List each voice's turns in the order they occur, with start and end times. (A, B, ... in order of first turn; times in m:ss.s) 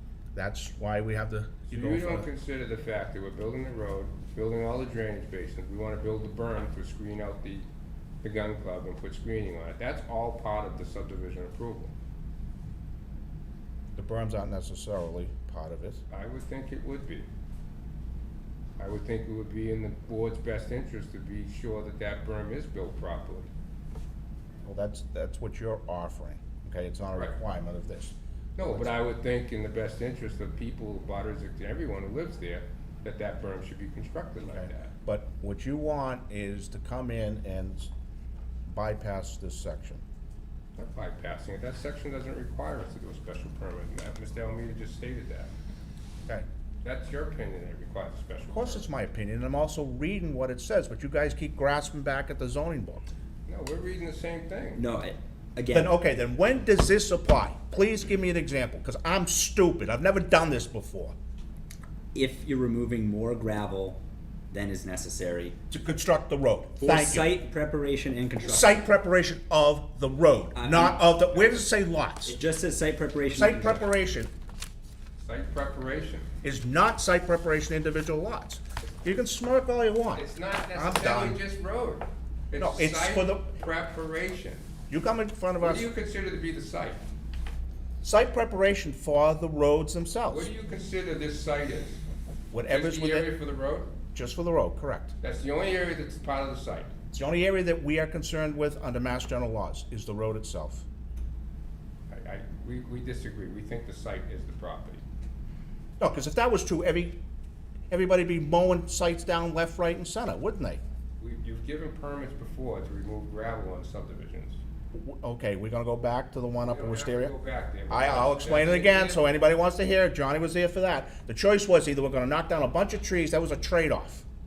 0:00.4-0:02.3 A
0:01.7-0:07.7 B
0:08.2-0:11.9 B
0:14.0-0:16.0 A
0:16.1-0:17.3 B
0:18.8-0:23.5 B
0:24.6-0:28.9 A
0:28.6-0:34.9 B
0:34.5-0:37.9 A
0:38.7-0:40.0 A
0:40.8-0:45.5 B
0:46.8-0:48.9 B
0:48.5-0:53.1 A
0:53.5-0:54.8 B
0:54.8-0:55.9 C
0:55.7-1:01.2 A
1:02.1-1:04.0 C
1:04.5-1:05.6 C
1:05.7-1:07.4 A
1:06.8-1:08.8 C
1:08.4-1:12.4 A
1:10.6-1:11.0 C
1:12.2-1:13.8 C
1:13.3-1:14.3 A
1:15.2-1:16.3 B
1:16.4-1:21.4 A
1:20.1-1:24.7 B
1:22.6-1:23.5 A
1:24.9-1:25.9 A
1:25.6-1:27.0 B
1:28.0-1:30.5 A
1:30.3-1:32.0 B
1:32.5-1:33.3 A
1:32.7-1:33.9 B
1:34.1-1:35.2 A
1:35.2-1:36.9 B
1:37.1-1:40.9 A
1:42.1-1:45.0 B
1:46.0-1:47.2 A
1:47.9-1:50.8 A
1:51.2-1:54.6 B
1:54.9-1:57.3 A
1:56.6-1:59.2 B
1:57.9-2:04.3 A